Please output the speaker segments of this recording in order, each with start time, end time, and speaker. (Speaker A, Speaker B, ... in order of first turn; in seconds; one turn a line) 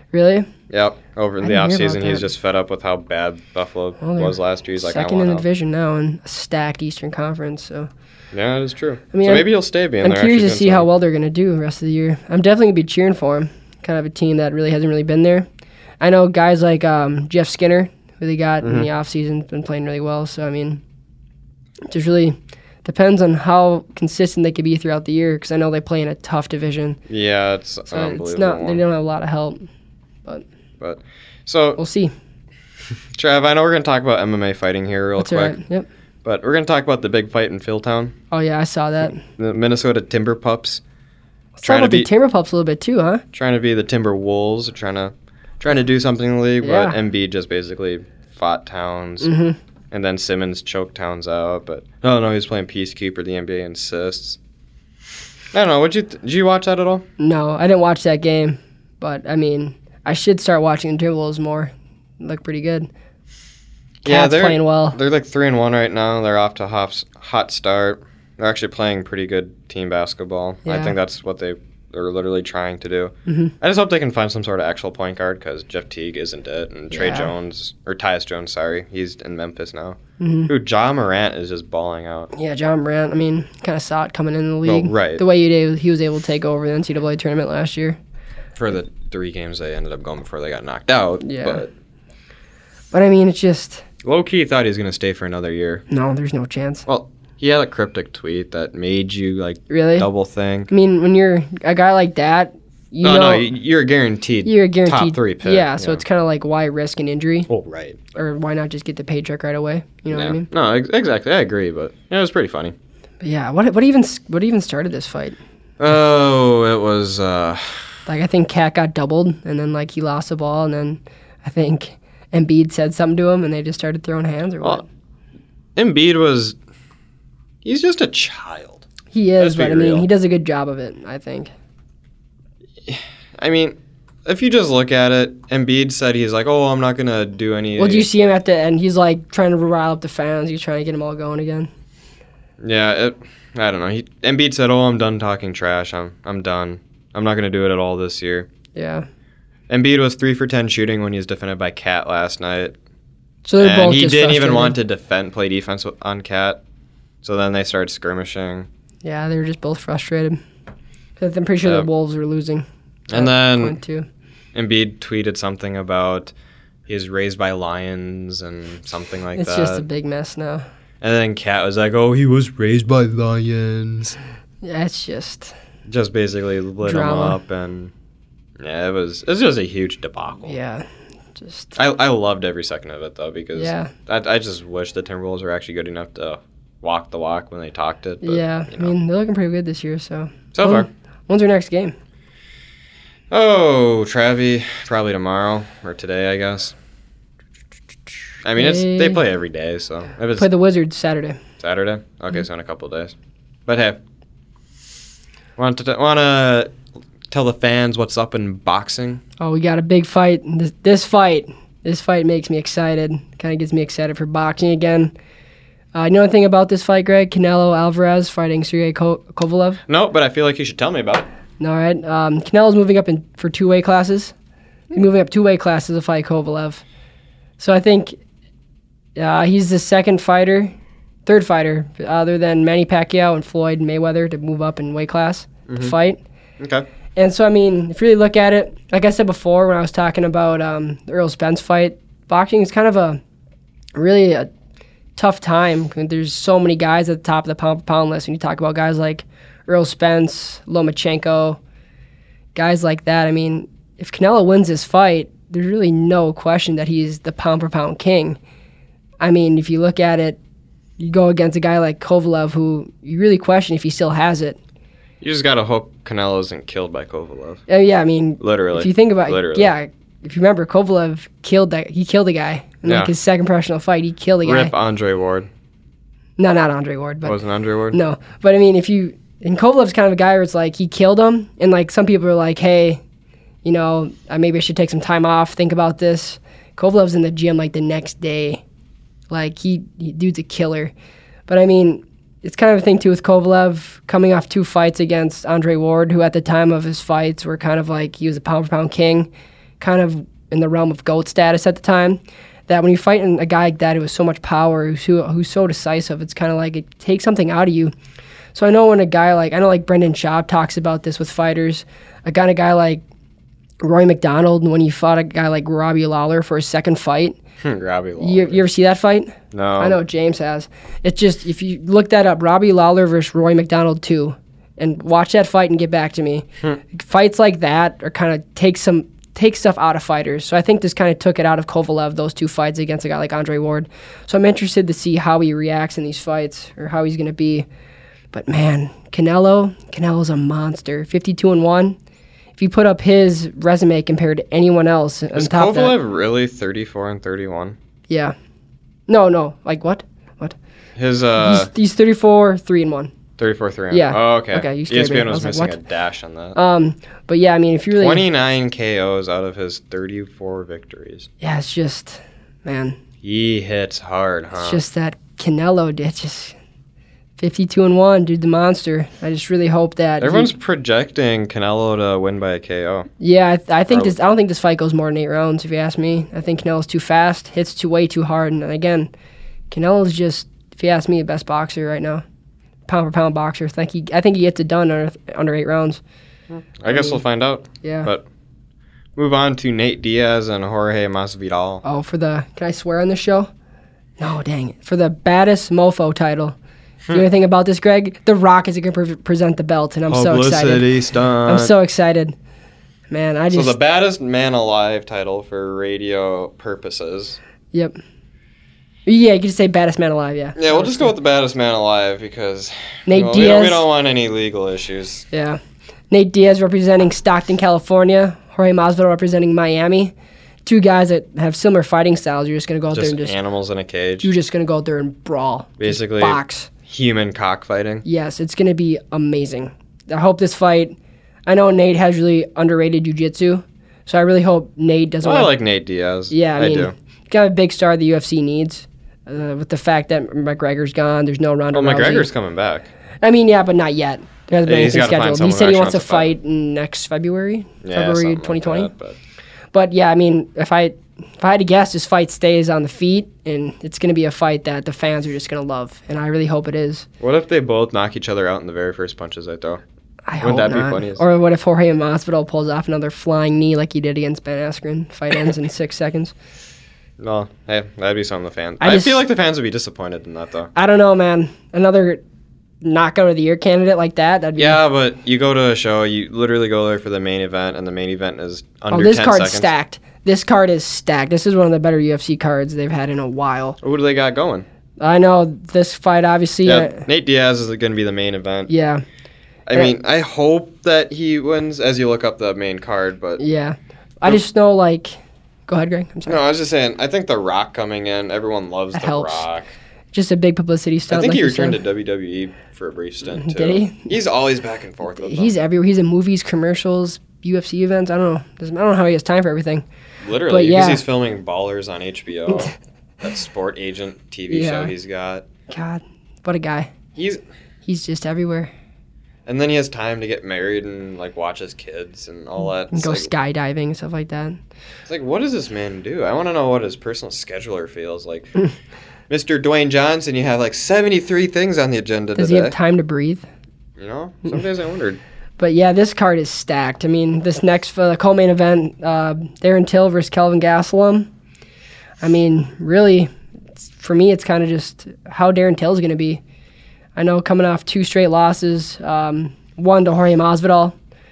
Speaker A: 0.1-0.5
Speaker B: 0.7-5.5
Speaker A: 1.4-2.3
Speaker A: 4.0-7.9
Speaker B: 8.3-10.9
Speaker A: 9.1-9.5
Speaker A: 10.0-15.5
Speaker A: 16.0-20.8
Speaker B: 18.6-18.9
Speaker A: 21.9-27.0
Speaker B: 27.1-28.8
Speaker A: 27.9-29.7
Speaker B: 30.8-31.8
Speaker A: 31.8-32.1
Speaker B: 33.1-35.6
Speaker A: 35.2-35.9
Speaker B: 36.2-38.2
Speaker A: 38.3-39.2
Speaker B: 39.2-40.8
Speaker A: 41.6-43.2
Speaker B: 41.6-42.1
Speaker B: 43.3-49.3
Speaker A: 46.6-47.0
Speaker A: 49.2-49.6
Speaker B: 49.9-54.4
Speaker B: 55.5-57.0
Speaker A: 57.2-62.9
Speaker B: 64.0-82.3
Speaker A: 64.0-65.0
Speaker A: 70.7-71.0
Speaker A: 73.3-73.5
Speaker A: 76.9-77.3
Speaker A: 80.2-80.5
Speaker A: 82.3-88.0
Speaker B: 84.7-85.2
Speaker B: 88.6-91.7
Speaker A: 91.2-91.6
Speaker A: 92.9-93.8
Speaker B: 94.0-95.8
Speaker A: 95.9-96.8
Speaker B: 96.9-100.7
Speaker A: 99.7-100.1
Speaker A: 100.7-103.5
Speaker B: 103.0-106.0
Speaker A: 104.5-107.5
Speaker B: 107.5-108.0
Speaker A: 108.2-110.5
Speaker B: 110.1-112.8
Speaker A: 113.2-115.4
Speaker B: 115.8-117.8
Speaker A: 118.1-124.9
Speaker B: 125.8-126.6
Speaker B: 127.6-128.9
Speaker A: 129.1-131.5
Speaker B: 129.4-130.1
Speaker B: 132.8-138.1
Speaker A: 137.8-141.7
Speaker B: 142.6-148.5
Speaker A: 148.8-149.1
Speaker B: 149.7-152.8
Speaker A: 153.4-154.8
Speaker B: 153.6-156.6
Speaker B: 157.2-158.7
Speaker A: 159.0-160.4
Speaker A: 161.2-164.1
Speaker B: 161.6-161.9
Speaker B: 163.1-163.8
Speaker B: 164.5-166.3
Speaker B: 166.9-169.9
Speaker A: 169.3-170.7
Speaker B: 171.0-174.2
Speaker A: 174.6-175.5
Speaker B: 175.9-177.9
Speaker A: 176.8-177.4
Speaker B: 178.6-180.6
Speaker A: 180.5-181.8
Speaker B: 181.8-188.9
Speaker A: 183.6-183.9
Speaker A: 188.2-191.9
Speaker B: 190.5-190.9
Speaker B: 193.3-196.8
Speaker B: 198.4-200.5
Speaker A: 198.6-199.2
Speaker A: 200.4-201.4
Speaker B: 201.6-203.2
Speaker B: 203.7-204.0
Speaker B: 205.6-206.8
Speaker B: 207.3-209.2
Speaker A: 209.4-215.1
Speaker A: 215.9-219.8
Speaker B: 219.9-221.3
Speaker A: 221.6-224.3
Speaker A: 224.9-226.8
Speaker A: 227.6-228.2
Speaker A: 229.2-230.8
Speaker A: 231.3-236.2
Speaker B: 235.7-235.9
Speaker B: 236.6-236.9
Speaker A: 237.2-243.2
Speaker A: 243.9-244.5
Speaker A: 245.2-251.6
Speaker A: 252.6-258.4
Speaker A: 259.2-260.4
Speaker A: 261.0-264.6
Speaker B: 265.2-267.6
Speaker A: 267.7-274.7
Speaker B: 268.4-269.7
Speaker B: 272.9-273.1
Speaker B: 274.4-275.5
Speaker A: 276.4-277.4
Speaker B: 277.2-278.0
Speaker A: 277.9-283.0
Speaker A: 283.6-288.6
Speaker A: 289.3-290.9
Speaker A: 291.5-299.3
Speaker A: 299.8-307.9
Speaker A: 308.5-313.0
Speaker A: 313.8-317.4
Speaker B: 317.6-318.6
Speaker A: 318.2-337.7
Speaker B: 319.5-320.0
Speaker A: 338.3-342.0
Speaker A: 342.6-346.0
Speaker B: 345.3-347.8
Speaker A: 348.1-348.4
Speaker A: 349.1-350.6
Speaker B: 351.0-351.7
Speaker A: 351.4-353.1
Speaker B: 353.4-356.6
Speaker A: 353.9-355.8
Speaker A: 356.6-358.2
Speaker B: 357.9-361.3
Speaker A: 361.4-363.0
Speaker B: 363.2-364.8
Speaker A: 364.6-366.6
Speaker A: 367.4-370.5
Speaker B: 370.2-373.1
Speaker A: 373.2-379.1
Speaker A: 379.7-382.2
Speaker A: 382.9-386.0
Speaker B: 386.5-388.3
Speaker A: 386.9-387.2
Speaker A: 387.8-388.1
Speaker B: 389.2-391.8
Speaker A: 391.8-393.5
Speaker A: 394.2-396.6
Speaker A: 397.1-400.9
Speaker B: 400.1-401.7
Speaker A: 401.4-402.4
Speaker A: 403.1-403.8
Speaker B: 403.5-407.4
Speaker A: 407.7-408.0
Speaker A: 409.1-411.1
Speaker B: 410.6-415.3
Speaker A: 413.1-413.9
Speaker A: 415.3-415.6
Speaker A: 416.1-420.1
Speaker A: 420.7-423.4
Speaker B: 422.9-424.3
Speaker A: 424.2-426.7
Speaker B: 425.8-428.0
Speaker A: 428.1-430.9
Speaker A: 431.5-435.5
Speaker B: 435.2-436.9
Speaker A: 436.3-442.3
Speaker B: 441.7-442.9
Speaker A: 443.2-448.9
Speaker B: 444.6-446.4
Speaker B: 447.8-449.2
Speaker A: 449.7-457.1
Speaker B: 457.2-459.8
Speaker A: 460.3-466.3
Speaker B: 460.4-461.2
Speaker B: 467.2-470.7
Speaker A: 468.8-469.2
Speaker A: 470.8-472.2
Speaker A: 472.8-474.8
Speaker B: 474.6-479.7
Speaker A: 478.9-483.8
Speaker B: 483.8-484.7
Speaker A: 485.0-487.1
Speaker B: 486.6-488.7
Speaker A: 488.7-489.0
Speaker B: 489.7-493.4
Speaker A: 493.4-496.4
Speaker B: 496.3-499.7
Speaker A: 498.9-499.5
Speaker A: 500.1-501.8
Speaker B: 501.1-505.5
Speaker A: 503.3-504.1
Speaker A: 505.1-509.9
Speaker B: 510.2-515.5
Speaker A: 510.4-511.0
Speaker A: 514.5-514.9
Speaker A: 515.7-516.9
Speaker B: 517.2-517.4
Speaker A: 517.9-518.7
Speaker B: 519.5-523.3
Speaker A: 522.9-524.6
Speaker B: 525.1-528.5
Speaker B: 529.3-532.8
Speaker A: 532.4-533.5
Speaker B: 534.0-535.2
Speaker A: 535.6-541.3
Speaker A: 542.2-546.4
Speaker A: 547.2-551.0